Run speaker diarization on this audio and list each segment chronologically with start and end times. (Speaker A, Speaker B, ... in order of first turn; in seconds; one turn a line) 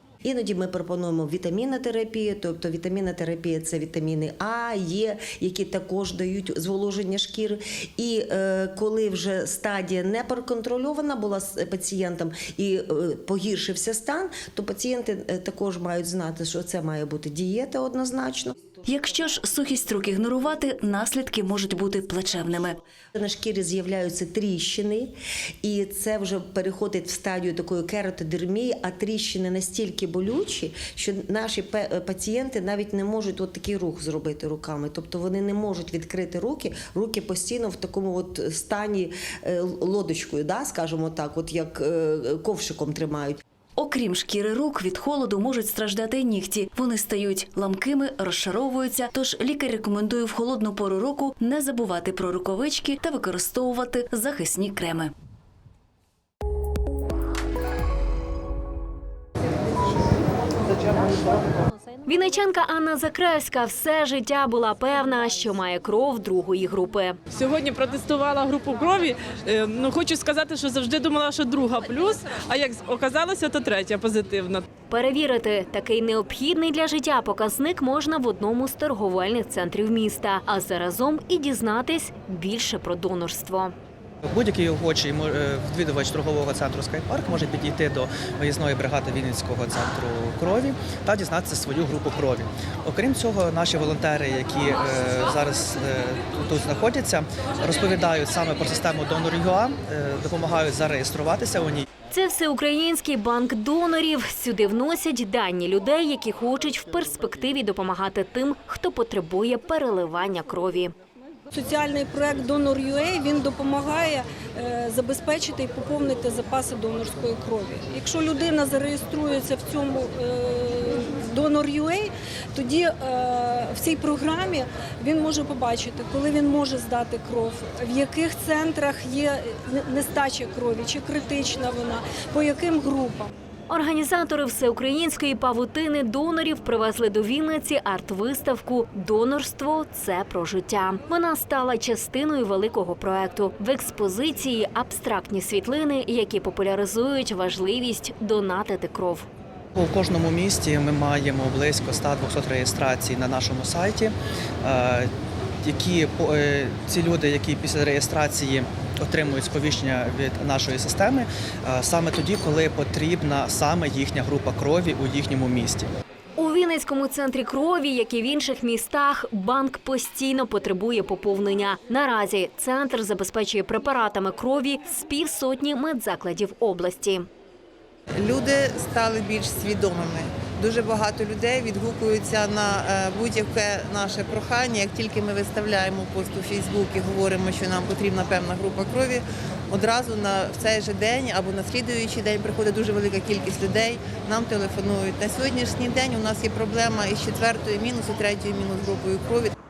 Speaker A: 0.2-18.6
Speaker B: 18.9-22.8
Speaker A: 23.1-43.4
Speaker B: 43.8-55.1
Speaker C: 62.1-67.2
Speaker D: 67.3-74.6
Speaker C: 74.9-83.7
Speaker E: 84.2-101.8
Speaker C: 102.1-110.9
Speaker F: 111.7-133.3
Speaker C: 133.7-149.3
Speaker E: 149.8-155.1
Speaker E: 155.6-165.9
Speaker C: 166.4-177.3
Speaker G: 178.2-199.5